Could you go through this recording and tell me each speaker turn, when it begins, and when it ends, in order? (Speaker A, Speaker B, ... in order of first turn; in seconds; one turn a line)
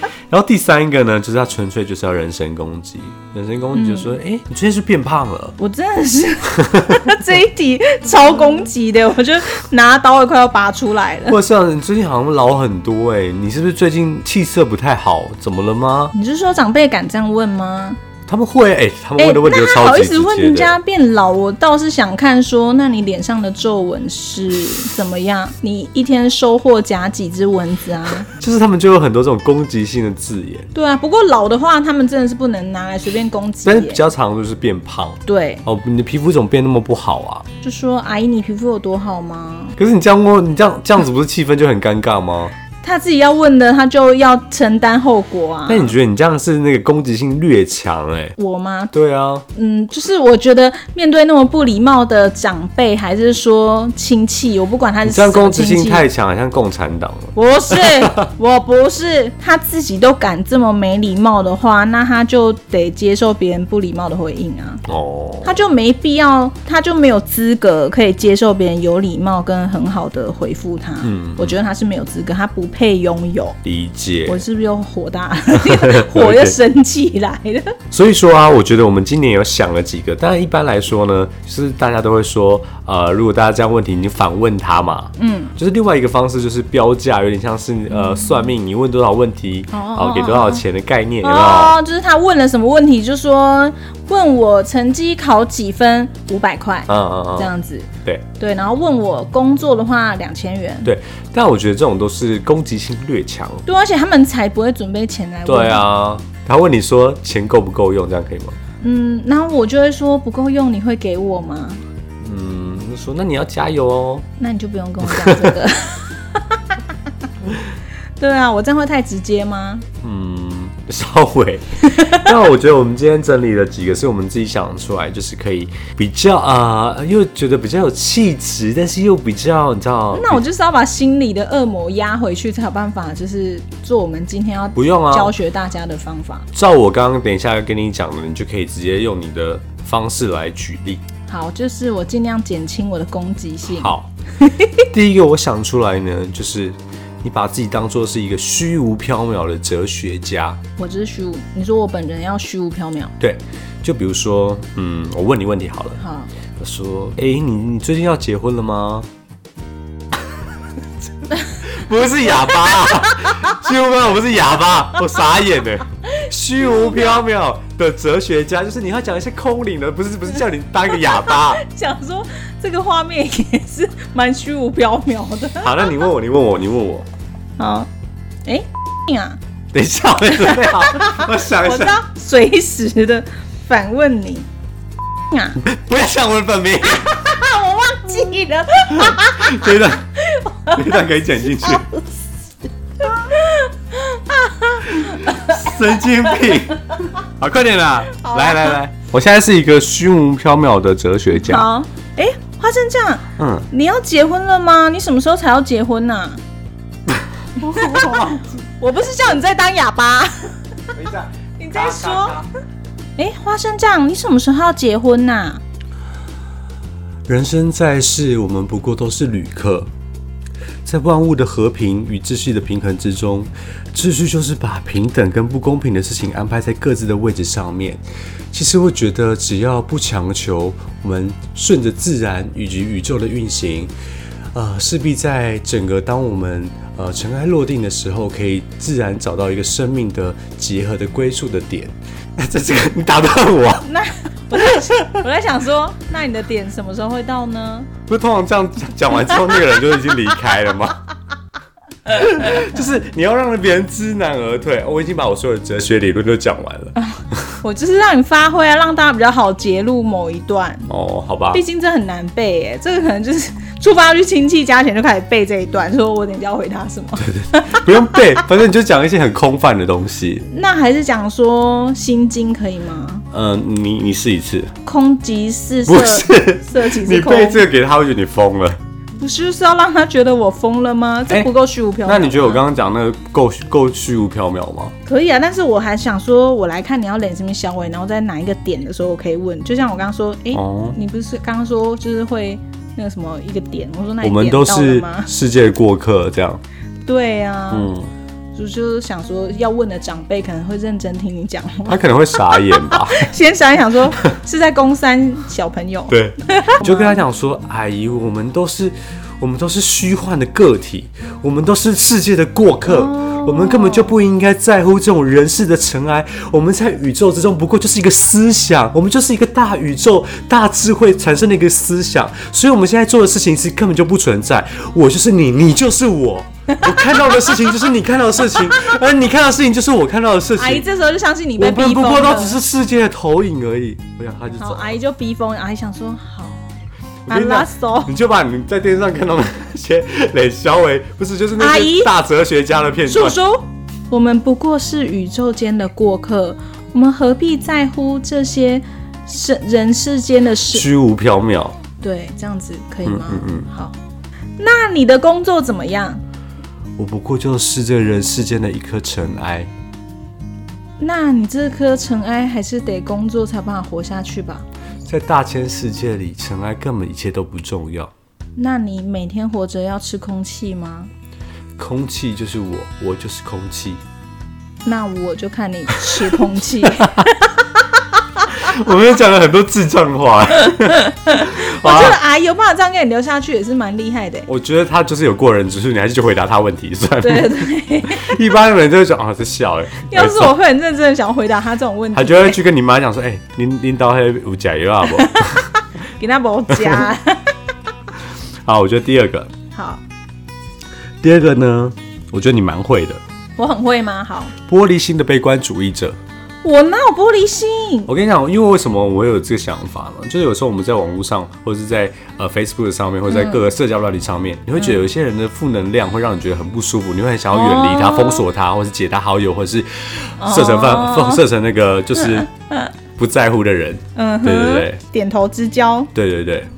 Speaker A: 0.3-5.6
Speaker B: 3.7-4.2
Speaker B: 5.6-11.4
Speaker A: 6.6-7.0
Speaker A: 11.3-16.1
Speaker B: 16.1-18.0
Speaker A: 18.3-20.8
Speaker B: 19.2-28.3
Speaker A: 28.3-30.7
Speaker B: 30.7-34.0
Speaker A: 33.6-37.5
Speaker B: 35.3-35.6
Speaker B: 37.6-39.8
Speaker A: 39.8-42.5
Speaker B: 42.8-45.9
Speaker A: 45.7-48.3
Speaker B: 48.4-48.9
Speaker A: 48.9-49.5
Speaker B: 49.5-56.1
Speaker A: 55.0-58.3
Speaker B: 57.4-64.8
Speaker A: 64.8-65.6
Speaker B: 65.4-73.6
Speaker A: 71.0-71.6
Speaker A: 73.6-74.4
Speaker B: 74.3-77.8
Speaker A: 75.5-76.6
Speaker A: 77.9-91.8
Speaker B: 85.2-85.5
Speaker B: 87.9-88.5
Speaker B: 89.7-90.7
Speaker B: 91.2-100.9
Speaker A: 96.9-97.5
Speaker A: 100.8-103.6
Speaker B: 103.7-105.9
Speaker A: 105.5-108.6
Speaker B: 108.8-111.8
Speaker A: 112.2-114.2
Speaker B: 114.4-116.8
Speaker A: 115.1-115.5
Speaker B: 118.2-119.9
Speaker A: 120.0-130.4
Speaker B: 121.8-122.3
Speaker B: 130.1-136.5
Speaker A: 134.8-135.3
Speaker A: 136.5-141.0
Speaker B: 141.3-144.9
Speaker A: 143.7-144.1
Speaker A: 144.9-150.6
Speaker B: 150.8-153.1
Speaker A: 153.2-156.0
Speaker B: 156.0-156.3
Speaker A: 156.6-159.1
Speaker B: 161.3-161.6
Speaker A: 161.6-171.6
Speaker B: 162.3-163.6
Speaker B: 166.1-167.2
Speaker B: 170.9-175.8
Speaker A: 175.6-177.1
Speaker B: 177.6-177.9
Speaker B: 178.4-179.4
Speaker A: 179.7-182.0
Speaker B: 180.4-184.5
Speaker B: 185.3-185.6
Speaker A: 185.6-187.2
Speaker B: 187.1-192.0
Speaker A: 188.9-190.1
Speaker A: 190.7-191.9
Speaker B: 193.0-195.8
Speaker A: 194.9-201.7
Speaker B: 198.2-198.8
Speaker B: 201.4-206.4
Speaker A: 203.4-203.7
Speaker B: 207.6-210.9
Speaker A: 207.7-208.4
Speaker A: 211.0-212.5
Speaker B: 211.6-212.4
Speaker B: 213.2-215.6
Speaker A: 217.3-219.9
Speaker A: 220.8-233.9
Speaker A: 234.5-243.9
Speaker B: 243.8-247.9
Speaker A: 244.6-245.0
Speaker A: 248.1-251.0
Speaker A: 252.1-257.0
Speaker B: 257.0-260.9
Speaker A: 260.9-261.6
Speaker B: 261.5-268.4
Speaker A: 267.2-270.5
Speaker B: 270.5-273.3
Speaker A: 273.3-274.7
Speaker B: 274.9-277.6
Speaker A: 275.9-278.8
Speaker B: 279.2-282.6
Speaker A: 282.1-284.9
Speaker B: 285.1-295.3
Speaker A: 290.5-291.0
Speaker A: 294.2-296.6
Speaker B: 297.1-297.9
Speaker A: 297.7-298.1
Speaker B: 298.6-307.2
Speaker A: 301.9-303.3
Speaker A: 306.1-330.9
Speaker B: 312.9-314.1
Speaker B: 326.7-327.0
Speaker B: 330.6-332.6
Speaker A: 331.6-335.0
Speaker B: 334.6-336.6
Speaker A: 337.3-343.4
Speaker B: 337.3-338.1
Speaker B: 341.6-342.1
Speaker B: 343.1-350.9
Speaker A: 350.7-351.8
Speaker B: 352.0-353.9
Speaker A: 353.0-353.7
Speaker B: 354.6-356.2
Speaker A: 357.0-359.7
Speaker B: 361.0-364.7
Speaker A: 365.1-368.1
Speaker B: 368.6-371.1
Speaker A: 371.8-374.0
Speaker B: 374.9-377.9
Speaker A: 376.0-377.1
Speaker A: 378.5-382.2
Speaker B: 380.6-384.5
Speaker A: 384.5-390.5
Speaker B: 387.2-388.4
Speaker B: 390.1-392.6
Speaker A: 392.1-395.7
Speaker B: 395.2-397.5
Speaker A: 396.7-397.0
Speaker A: 398.6-399.5
Speaker B: 399.7-400.0
Speaker A: 401.2-403.2
Speaker B: 403.6-404.5
Speaker A: 404.6-406.2
Speaker B: 406.6-408.1
Speaker A: 408.1-422.5
Speaker B: 413.3-413.6
Speaker B: 417.5-418.4
Speaker B: 420.4-421.4
Speaker B: 422.2-422.9
Speaker A: 423.2-425.0
Speaker B: 424.2-426.1
Speaker A: 426.1-426.7